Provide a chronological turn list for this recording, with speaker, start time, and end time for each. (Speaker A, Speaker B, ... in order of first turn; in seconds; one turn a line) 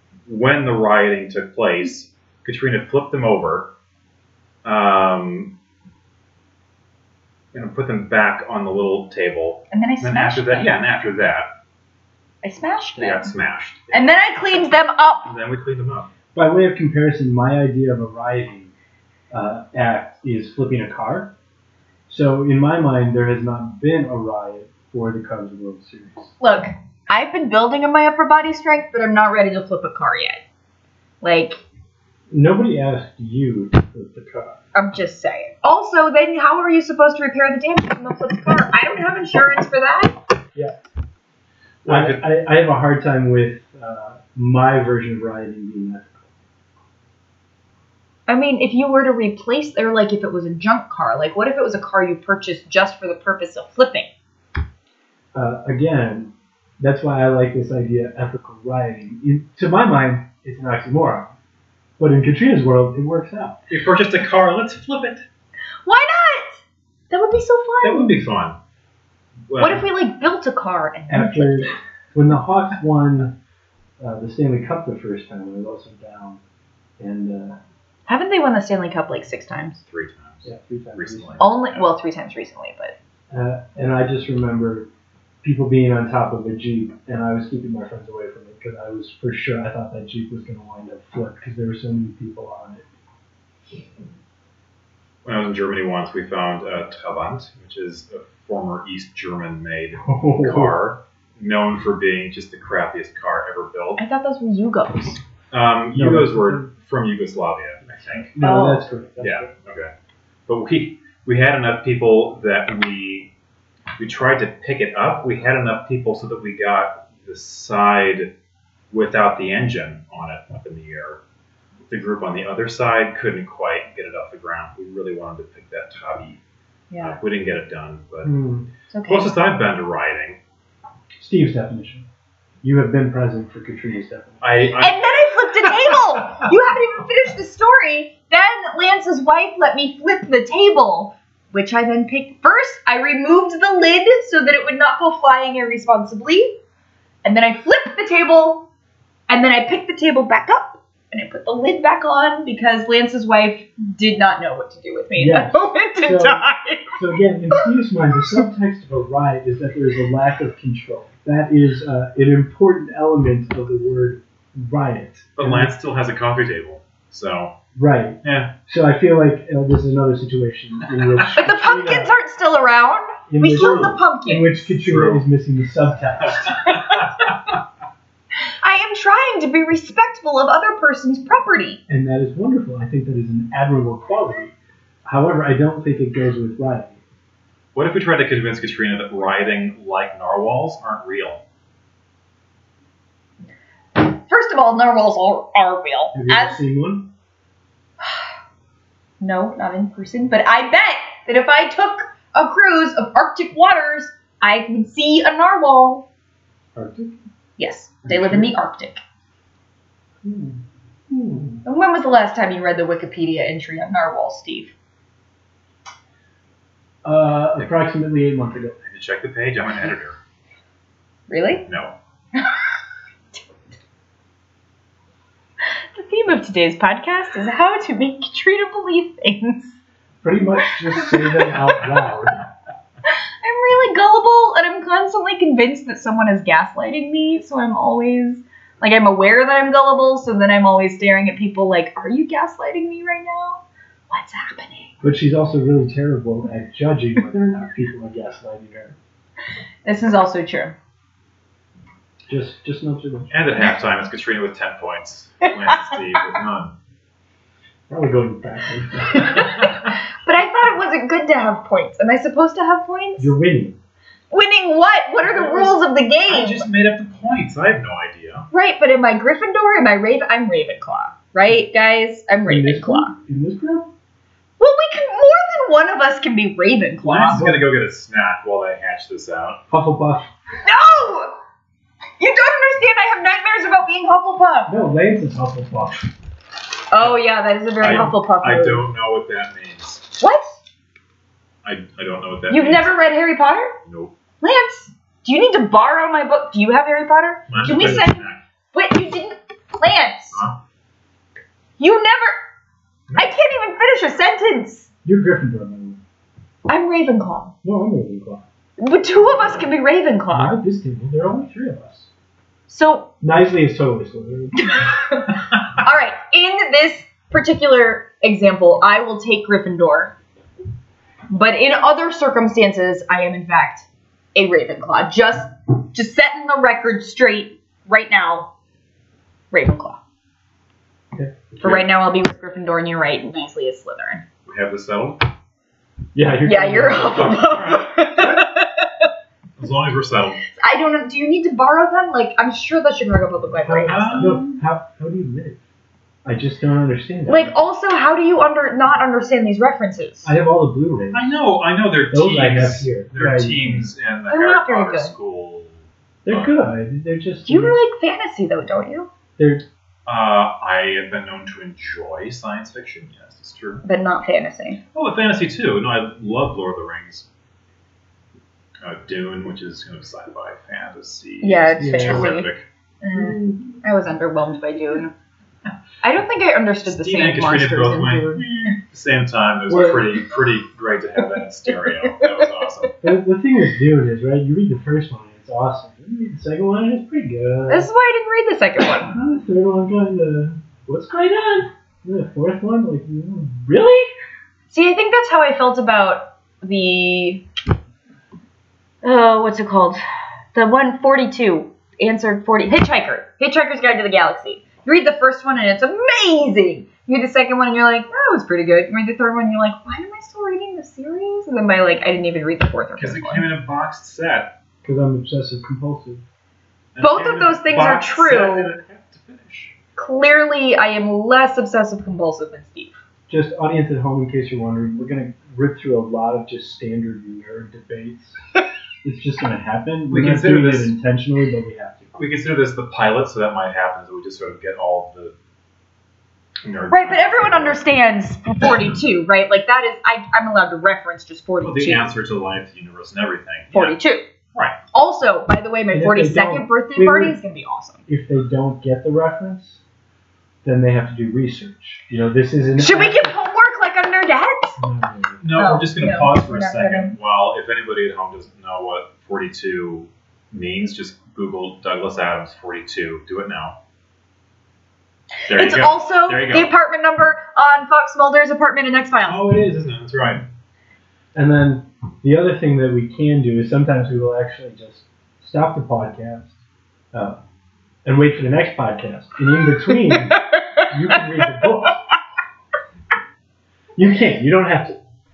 Speaker A: 0.2-3.7
Speaker A: 4.6-5.5
Speaker A: 7.5-11.5
Speaker B: 9.7-10.7
Speaker B: 12.4-13.3
Speaker A: 12.9-14.1
Speaker B: 13.9-15.3
Speaker A: 15.2-16.1
Speaker C: 16.3-18.7
Speaker C: 19.3-21.3
Speaker C: 22.1-26.3
Speaker B: 26.4-30.4
Speaker B: 31.2-31.6
Speaker C: 32.3-34.6
Speaker B: 34.7-40.1
Speaker A: 41.8-42.2
Speaker C: 41.9-46.2
Speaker B: 48.3-54.1
Speaker C: 55.3-61.3
Speaker C: 62.0-63.6
Speaker A: 63.7-65.2
Speaker B: 65.8-68.2
Speaker A: 67.8-68.6
Speaker A: 69.5-69.9
Speaker B: 69.6-71.8
Speaker C: 71.1-73.3
Speaker C: 74.0-76.4
Speaker C: 77.0-77.6
Speaker B: 78.1-79.8
Speaker A: 79.9-81.9
Speaker C: 80.4-81.4
Speaker B: 81.4-82.9
Speaker C: 83.3-84.9
Speaker C: 85.4-92.8
Speaker A: 95.2-104.0
Speaker C: 100.0-100.8
Speaker B: 104.0-105.2
Speaker A: 105.5-108.3
Speaker C: 105.9-106.7
Speaker C: 107.9-109.5
Speaker B: 108.4-108.8
Speaker A: 109.2-109.9
Speaker A: 110.5-113.3
Speaker A: 114.0-118.3
Speaker A: 118.9-121.2
Speaker A: 121.9-126.4
Speaker B: 126.9-127.2
Speaker A: 127.0-128.3
Speaker C: 128.2-128.7
Speaker B: 128.9-129.3
Speaker A: 129.0-130.4
Speaker C: 131.2-132.1
Speaker C: 132.6-134.5
Speaker A: 134.4-135.2
Speaker B: 134.8-146.6
Speaker B: 147.2-148.7
Speaker B: 149.3-157.0
Speaker C: 155.2-165.7
Speaker A: 165.4-167.6
Speaker C: 167.7-172.1
Speaker A: 168.2-168.5
Speaker B: 171.3-174.7
Speaker C: 173.3-176.8
Speaker A: 174.8-175.2
Speaker A: 176.3-177.2
Speaker B: 178.6-181.8
Speaker C: 181.9-184.5
Speaker C: 185.1-187.0
Speaker A: 187.7-191.4
Speaker B: 193.9-196.6
Speaker C: 196.1-197.1
Speaker B: 198.0-198.3
Speaker B: 199.2-206.1
Speaker C: 206.8-207.2
Speaker B: 207.6-209.0
Speaker C: 208.1-208.5
Speaker C: 210.2-211.6
Speaker B: 211.6-214.7
Speaker C: 217.0-218.8
Speaker A: 218.8-220.2
Speaker B: 221.3-221.6
Speaker A: 221.7-221.9
Speaker B: 225.7-229.8
Speaker C: 230.2-232.4
Speaker B: 231.0-231.5
Speaker B: 233.1-244.9
Speaker C: 245.0-249.0
Speaker B: 249.8-250.8
Speaker C: 252.3-253.3
Speaker A: 253.3-256.7
Speaker B: 255.4-256.3
Speaker C: 257.9-259.7
Speaker B: 259.2-263.3
Speaker C: 263.2-263.8
Speaker B: 264.3-266.7
Speaker A: 265.3-265.8
Speaker A: 266.3-268.5
Speaker B: 268.5-273.1
Speaker C: 272.4-273.9
Speaker B: 274.6-277.4
Speaker A: 277.0-279.6
Speaker C: 279.7-280.3
Speaker B: 280.6-281.4
Speaker B: 282.2-284.7
Speaker C: 284.7-286.1
Speaker B: 286.9-288.9
Speaker A: 287.8-290.1
Speaker B: 290.2-290.6
Speaker A: 291.6-292.9
Speaker B: 292.5-293.8
Speaker A: 293.9-294.1
Speaker B: 294.4-300.4
Speaker A: 297.5-298.4
Speaker C: 297.6-298.1
Speaker A: 300.3-300.6
Speaker B: 301.8-302.4
Speaker B: 303.1-304.9
Speaker C: 305.0-306.0
Speaker B: 306.7-307.5
Speaker C: 307.6-308.4
Speaker B: 308.8-310.6
Speaker C: 310.3-312.1
Speaker B: 312.7-313.1
Speaker C: 313.2-314.8
Speaker B: 314.6-320.1
Speaker B: 321.3-328.5
Speaker B: 329.5-330.0
Speaker C: 331.1-331.7
Speaker B: 331.6-334.2
Speaker A: 334.4-335.2
Speaker C: 336.1-337.4
Speaker B: 336.4-339.1
Speaker A: 337.1-338.4
Speaker A: 339.6-340.4
Speaker B: 340.6-344.6
Speaker C: 343.6-345.6
Speaker A: 343.9-344.4
Speaker C: 346.2-347.5
Speaker B: 347.3-350.3
Speaker C: 350.2-351.4
Speaker A: 351.1-356.6
Speaker C: 352.1-353.8
Speaker B: 354.3-355.1
Speaker C: 356.2-357.8
Speaker B: 357.5-359.1
Speaker C: 359.4-359.6
Speaker A: 360.1-363.8
Speaker B: 363.8-364.8
Speaker A: 364.9-367.3
Speaker A: 368.8-372.6
Speaker B: 371.4-372.5
Speaker C: 371.8-372.3
Speaker B: 373.0-375.1
Speaker C: 373.1-373.8
Speaker B: 376.0-378.5
Speaker A: 376.9-382.9
Speaker C: 379.7-380.1
Speaker B: 381.8-382.1
Speaker C: 383.0-387.9
Speaker B: 387.7-389.1
Speaker C: 389.1-394.1
Speaker B: 394.7-397.4
Speaker B: 399.0-400.0
Speaker B: 400.5-413.4
Speaker A: 413.0-414.6
Speaker C: 414.8-416.2
Speaker A: 416.9-419.7
Speaker B: 417.0-418.7
Speaker B: 420.0-422.9
Speaker C: 423.3-428.4
Speaker C: 429.0-432.2
Speaker A: 430.1-430.9
Speaker A: 432.1-435.3
Speaker A: 436.6-437.8
Speaker B: 436.9-442.0
Speaker A: 441.6-444.0
Speaker B: 443.7-444.2
Speaker B: 444.9-448.0
Speaker C: 445.9-447.4
Speaker C: 448.1-449.8
Speaker C: 450.6-453.3
Speaker B: 452.8-454.8
Speaker C: 454.8-455.5
Speaker A: 455.4-463.8
Speaker B: 455.5-457.1
Speaker A: 465.5-466.7
Speaker B: 465.5-469.4
Speaker A: 469.2-470.4
Speaker C: 471.3-476.5
Speaker C: 477.1-477.4
Speaker C: 478.0-482.0
Speaker B: 480.1-481.7
Speaker C: 483.9-485.0